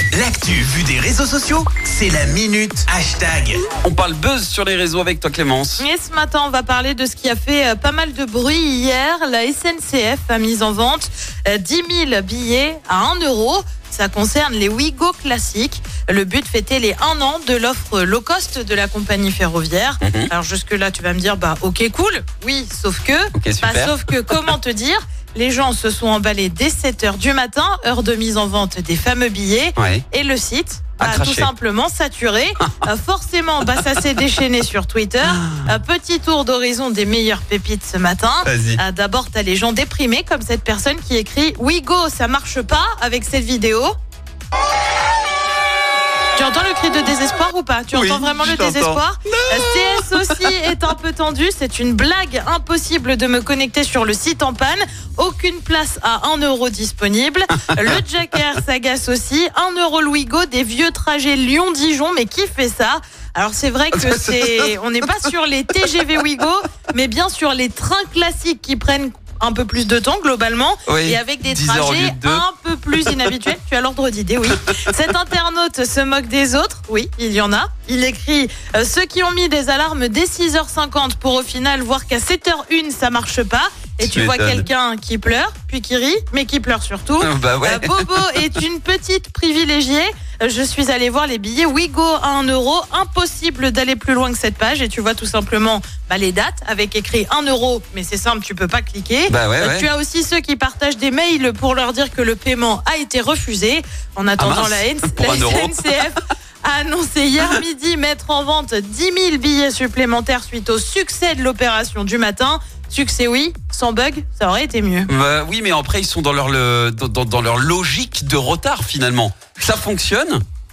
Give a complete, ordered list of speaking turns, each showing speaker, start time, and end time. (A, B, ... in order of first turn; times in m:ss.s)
0:00.1-0:03.6 A
0:03.8-0:05.8 B
0:05.8-0:43.9 C
0:20.0-0:20.3 B
0:23.3-0:24.3 B
0:29.8-0:30.0 B
0:31.0-0:31.5 B
0:35.2-0:35.7 B
0:38.4-0:38.8 B
0:46.4-1:55.1 C
0:47.9-0:50.5 B
1:03.9-1:04.7 B
1:10.9-1:12.4 B
1:14.5-1:14.8 B
1:24.0-1:24.6 B
1:27.2-1:28.5 B
1:39.3-1:39.9 B
1:44.4-1:46.0 B
1:55.0-2:00.4 B